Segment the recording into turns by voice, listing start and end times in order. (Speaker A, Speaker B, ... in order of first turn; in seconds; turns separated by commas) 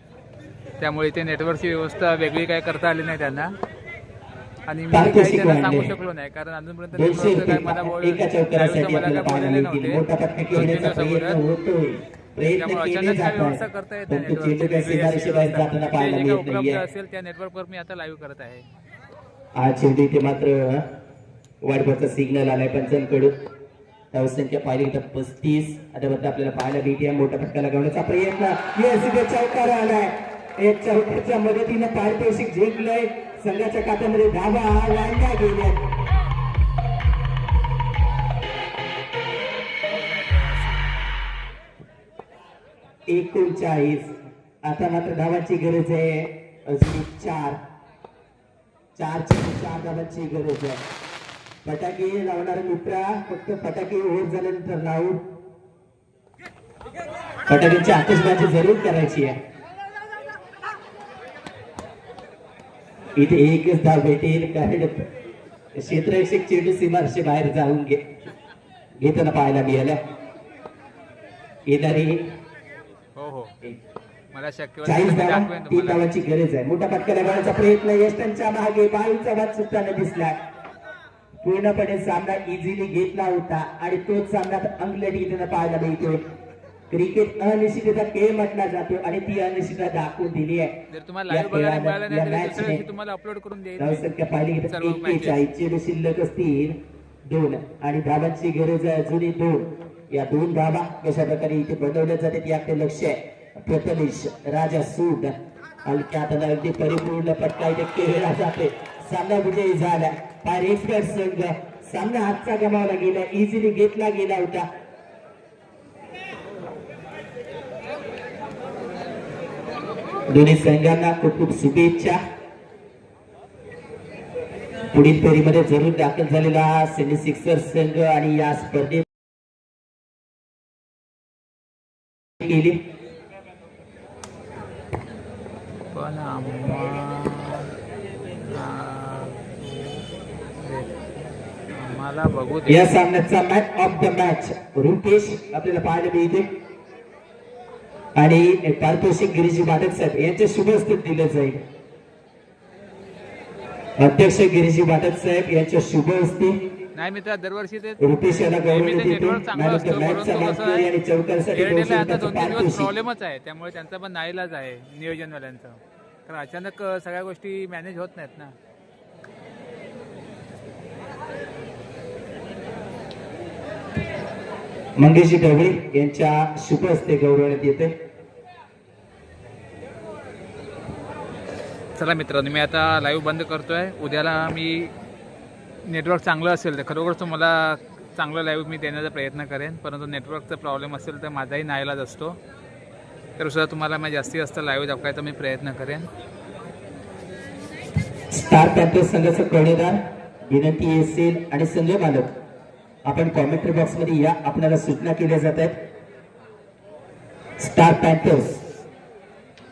Speaker A: 0.8-3.5, Speaker A: 4.7-11.4, Speaker B: 4.9-5.9, Speaker B: 6.9-16.8, Speaker A: 12.6-18.6, Speaker B: 19.6-20.8, Speaker B: 21.6-23.3, Speaker B: 24.1-35.9, Speaker B: 43.1-47.6, Speaker B: 49.0-50.8, Speaker B: 51.6-55.2, Speaker B: 57.5-59.4, Speaker B: 63.1-65.0, Speaker B: 65.7-68.1, Speaker B: 69.0-70.0, Speaker B: 71.7-72.3, Speaker A: 73.2-73.5, Speaker A: 74.3-76.0, Speaker B: 74.8-80.4, Speaker B: 81.4-86.2, Speaker B: 86.9-92.8, Speaker A: 90.9-94.1, Speaker B: 93.8-114.7, Speaker A: 94.7-95.4, Speaker B: 120.3-122.2, Speaker B: 124.9-129.0, Speaker B: 132.4-132.8, Speaker A: 135.9-137.7, Speaker A: 138.4-140.0, Speaker A: 140.6-140.9, Speaker A: 141.7-142.9, Speaker B: 142.7-146.5, Speaker B: 148.2-151.6, Speaker B: 154.0-156.6, Speaker A: 156.9-160.9, Speaker B: 158.0-162.9, Speaker A: 161.5-168.5, Speaker B: 175.0-177.9, Speaker A: 181.9-184.9, Speaker A: 185.8-192.4, Speaker A: 193.4-196.1, Speaker B: 198.3-202.3, Speaker B: 203.0-205.8, Speaker B: 207.6-208.6